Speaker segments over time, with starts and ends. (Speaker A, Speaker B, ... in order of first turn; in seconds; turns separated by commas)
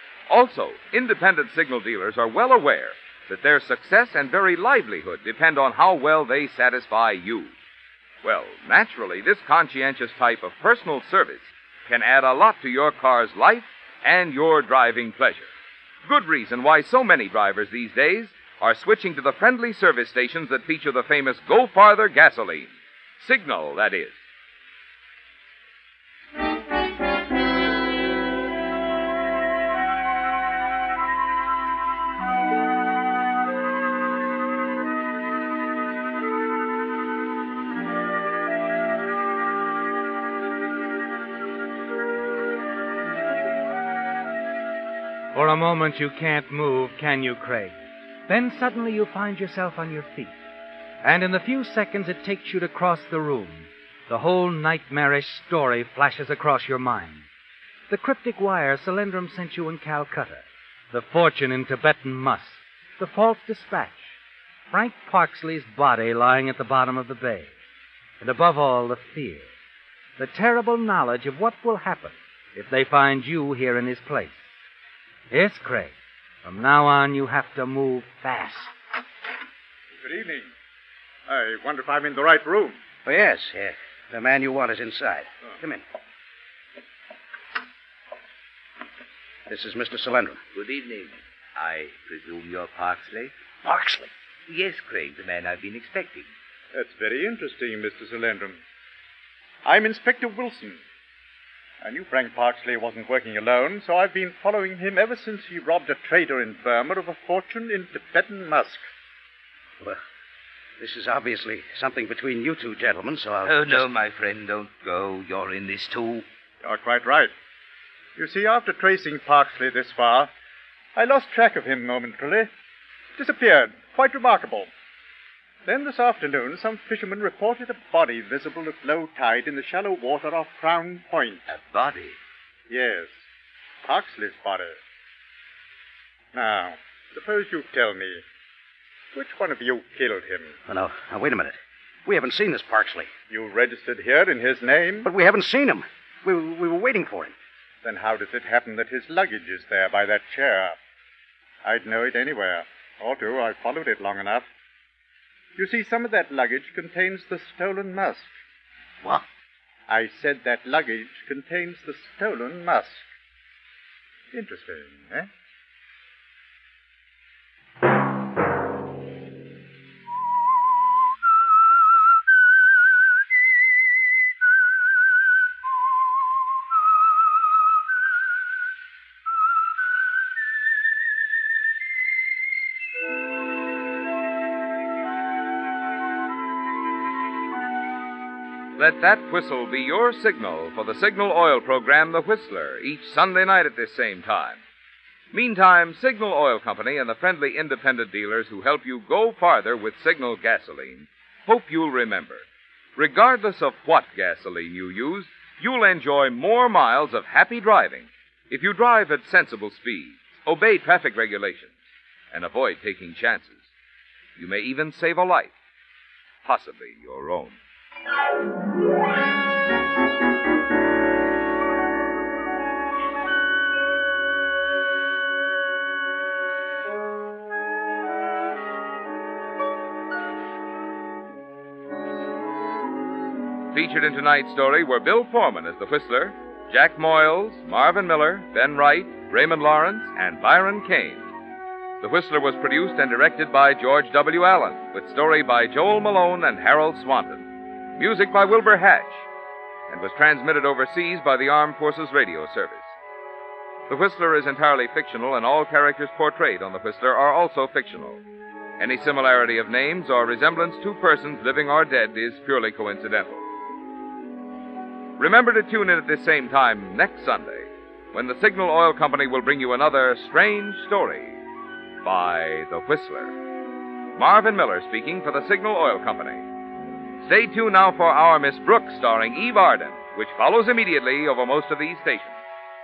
Speaker A: 0.3-7.5, Speaker A: 8.2-15.5, Speaker A: 16.0-24.2, Speaker B: 45.3-47.8, Speaker B: 48.3-50.3, Speaker B: 51.0-57.2, Speaker B: 57.9-64.2, Speaker B: 64.7-67.5, Speaker B: 68.2-69.5, Speaker B: 70.2-74.5, Speaker B: 75.3-78.7, Speaker C: 80.0-80.5, Speaker C: 81.3-82.8, Speaker D: 83.0-85.8, Speaker D: 89.5-90.4, Speaker E: 90.5-93.3, Speaker D: 93.6-94.1, Speaker E: 94.5-96.3, Speaker C: 96.7-98.6, Speaker C: 99.6-100.8, Speaker C: 101.8-108.8, Speaker D: 110.8-113.9, Speaker E: 113.4-116.2, Speaker C: 116.6-117.3, Speaker C: 118.2-120.3, Speaker C: 121.0-122.5, Speaker C: 123.2-124.7, Speaker C: 125.7-131.4, Speaker E: 131.5-132.2, Speaker C: 132.7-133.1, Speaker C: 133.8-134.8, Speaker C: 136.3-138.2, Speaker C: 139.1-140.5, Speaker D: 140.7-143.1, Speaker C: 143.3-145.1, Speaker D: 145.0-147.3, Speaker C: 147.8-150.8, Speaker C: 151.6-154.5, Speaker C: 155.6-158.3, Speaker C: 159.9-163.0, Speaker C: 164.3-165.3, Speaker A: 188.8-194.6, Speaker A: 195.3-202.4, Speaker A: 202.9-211.7, Speaker A: 212.3-213.7, Speaker A: 214.3-215.5, Speaker A: 216.4-217.6, Speaker A: 233.7-241.3, Speaker A: 242.0-249.3, Speaker A: 249.9-252.9, Speaker A: 253.9-258.2, Speaker A: 258.8-263.4, Speaker A: 265.2-271.4, Speaker A: 272.0-273.3, Speaker A: 274.1-276.4, Speaker A: 277.2-282.4